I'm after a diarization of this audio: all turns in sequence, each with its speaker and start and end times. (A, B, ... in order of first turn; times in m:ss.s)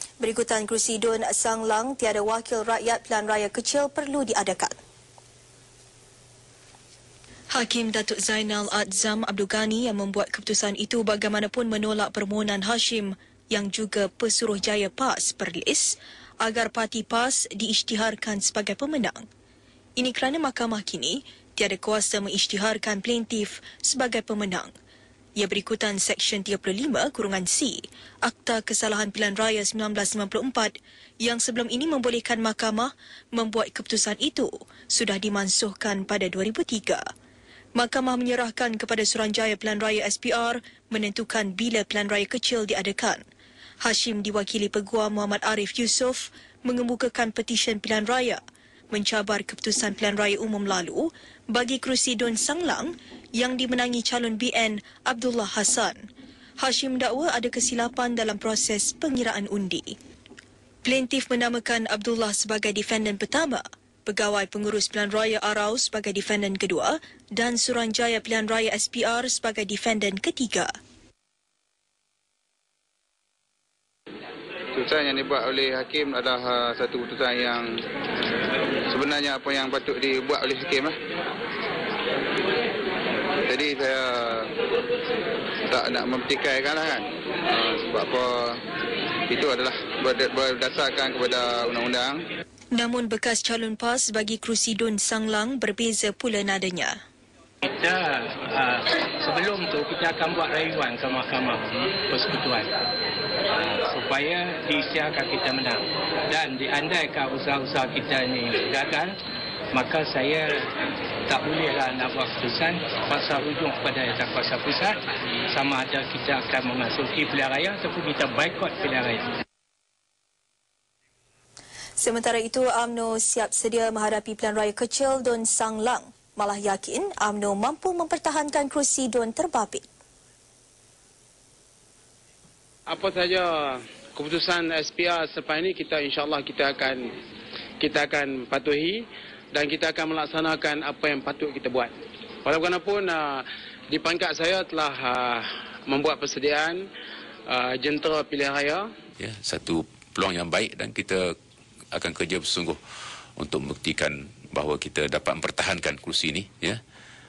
0:00.2-0:04.8 A
0:07.5-0:19.2 A
0:20.0-0:24.7 A
0:25.4-0:37.0 A
0:37.7-0:43.2 A
0:43.8-0:56.1 A
0:56.6-0:59.9 A
1:00.8-1:10.7 A
1:14.7-1:17.7 B
1:18.9-1:20.9 B
1:23.5-1:24.5 B
1:25.7-1:28.6 B
1:29.3-1:32.2 B
1:32.7-1:37.0 A
1:37.6-1:42.7 C
1:43.5-1:49.1 C
1:49.7-1:50.6 C
1:51.3-1:55.0 C
1:55.5-1:59.3 C
2:02.0-2:09.8 A
2:12.9-2:17.2 D
2:17.8-2:26.9 D
2:27.5-2:28.9 D
2:29.2-2:31.3 E
2:31.9-2:32.8 E
2:33.4-2:36.8 E